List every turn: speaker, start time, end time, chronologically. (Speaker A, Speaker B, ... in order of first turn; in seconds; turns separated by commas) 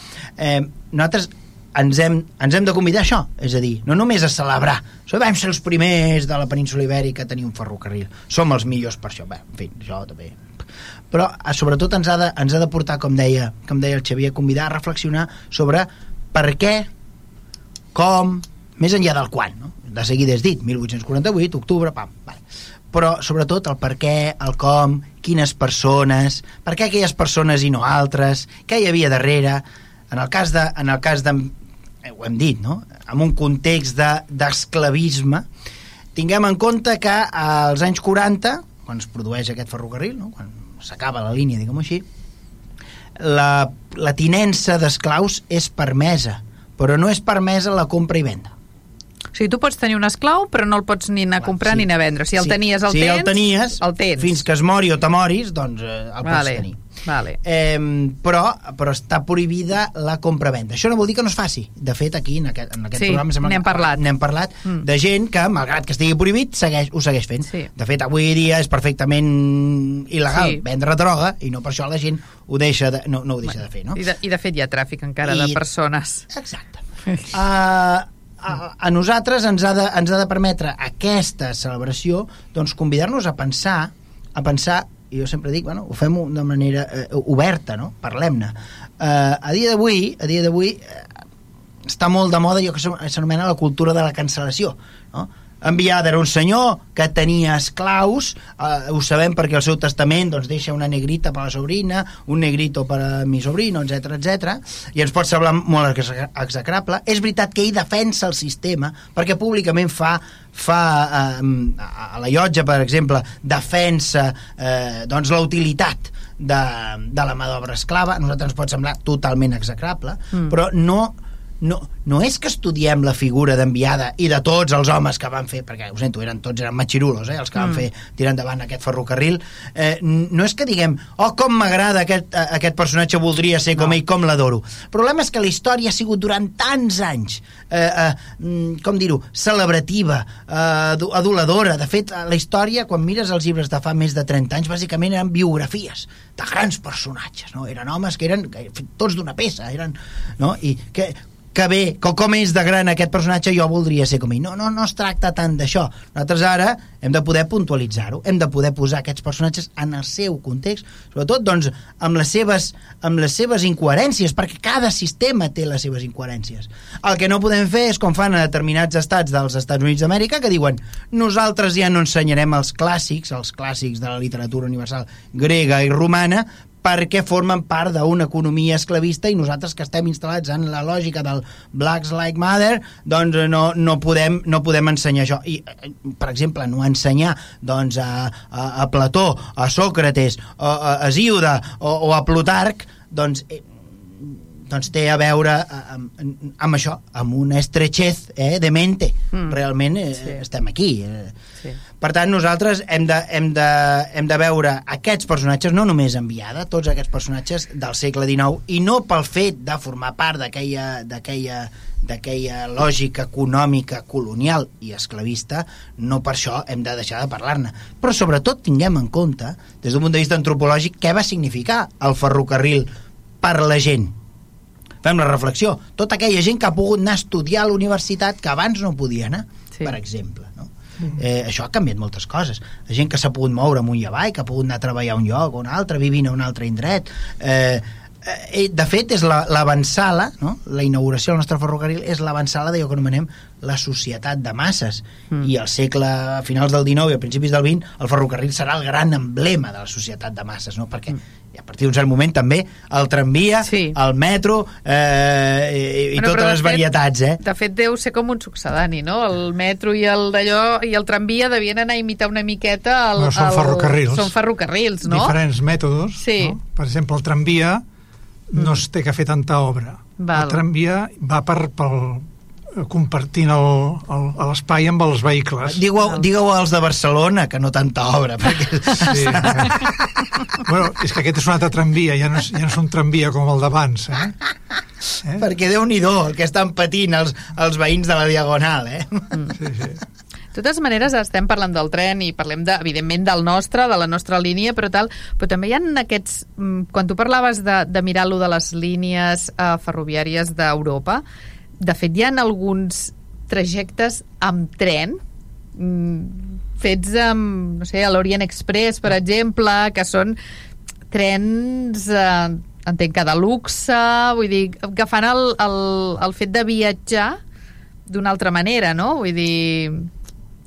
Speaker A: 0.4-10.6, Speaker A: 11.1-16.9, Speaker A: 17.9-35.5, Speaker A: 36.1-42.0, Speaker A: 43.2-48.5, Speaker B: 49.3-54.4, Speaker A: 51.4-56.8, Speaker B: 56.2-57.4, Speaker A: 57.4-74.0, Speaker B: 63.0-64.0, Speaker B: 70.3-70.6, Speaker B: 73.9-76.2, Speaker A: 75.2-75.6, Speaker A: 76.3-91.2, Speaker A: 91.8-201.3, Speaker B: 199.3-199.6, Speaker A: 202.0-222.9, Speaker A: 223.4-224.1, Speaker A: 225.0-257.4, Speaker B: 253.6-253.9, Speaker B: 256.1-256.9, Speaker B: 257.4-265.3, Speaker C: 263.2-264.3, Speaker C: 265.0-267.8, Speaker B: 266.2-266.6, Speaker C: 268.5-275.8, Speaker B: 268.6-268.8, Speaker B: 270.2-270.6, Speaker A: 275.6-280.6, Speaker C: 279.0-279.8, Speaker C: 280.6-284.4, Speaker A: 285.3-289.4, Speaker C: 289.6-290.0, Speaker B: 290.5-301.2, Speaker B: 301.8-305.2, Speaker B: 305.8-310.4, Speaker B: 311.1-317.4, Speaker B: 318.1-320.1